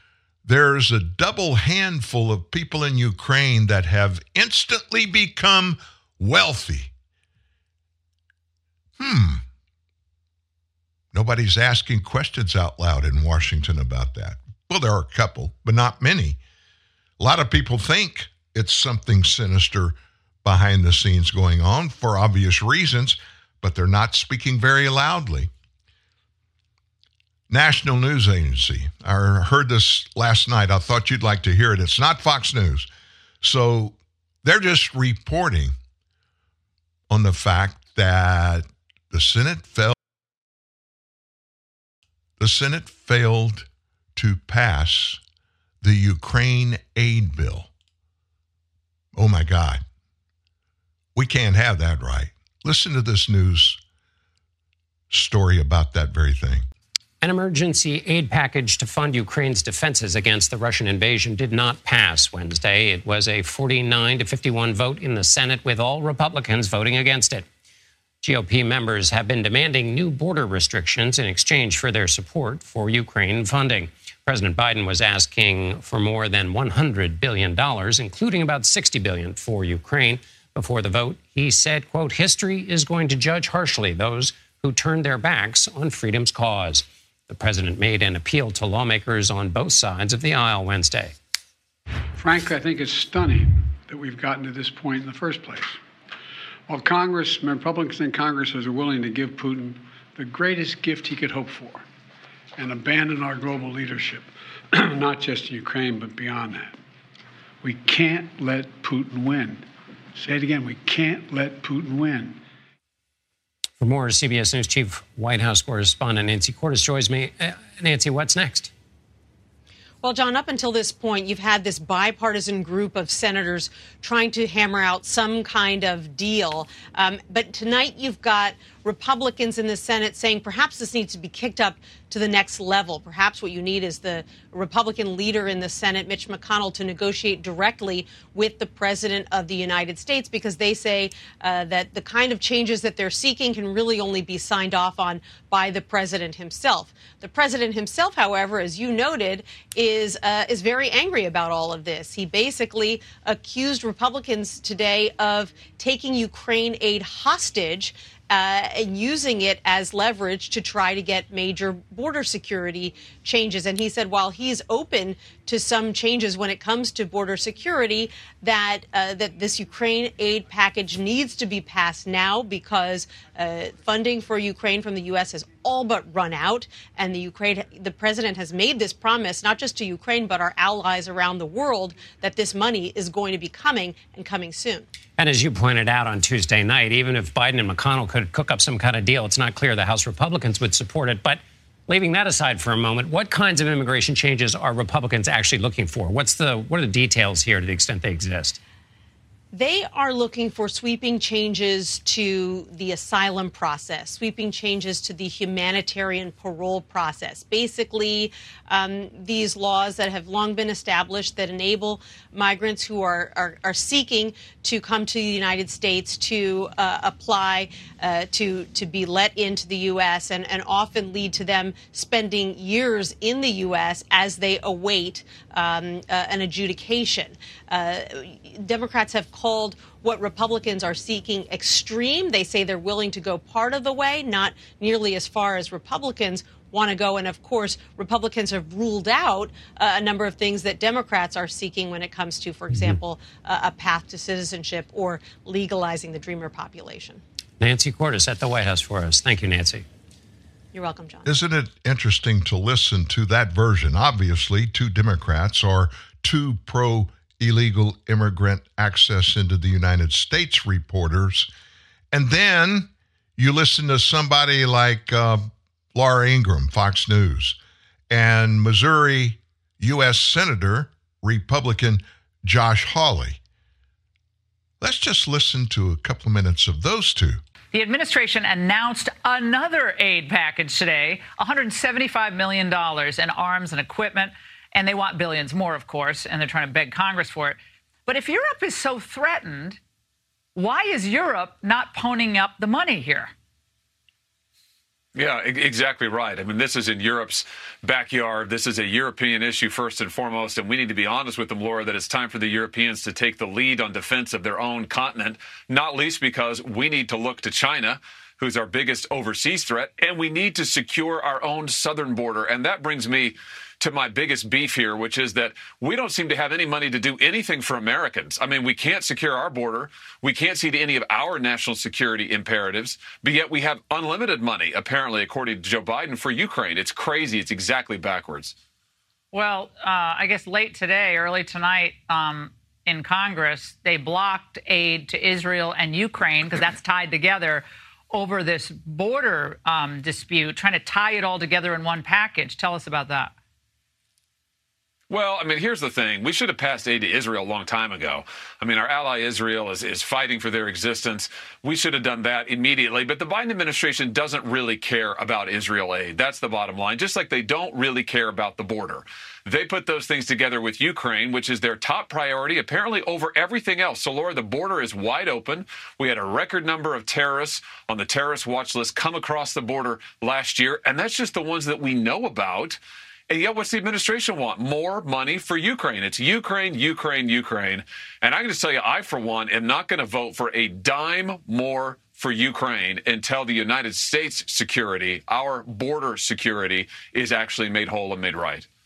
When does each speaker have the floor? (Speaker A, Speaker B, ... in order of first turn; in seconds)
Speaker A: 0.4-6.9, 9.0-9.4, 11.1-16.4, 17.2-25.5, 27.5-32.9, 33.4-35.7, 37.1-39.9, 42.4-45.2, 45.8-47.7, 49.1-49.8, 51.1-53.8, 55.1-56.6, 251.2-261.5, 262.1-267.6, 268.1-273.4, 274.8-277.4
Speaker B: 57.2-67.5, 68.2-91.1, 113.8-118.7, 185.2-198.6, 247.6-249.8
Speaker C: 92.2-95.8, 96.7-101.8, 102.6-106.8, 107.6-109.6, 110.2-112.4
Speaker D: 120.0-184.9, 199.5-247.2, 250.7-251.3
Speaker E: 277.7-289.8, 290.6-293.3, 329.3-343.3
Speaker F: 295.1-328.5, 345.1-388.6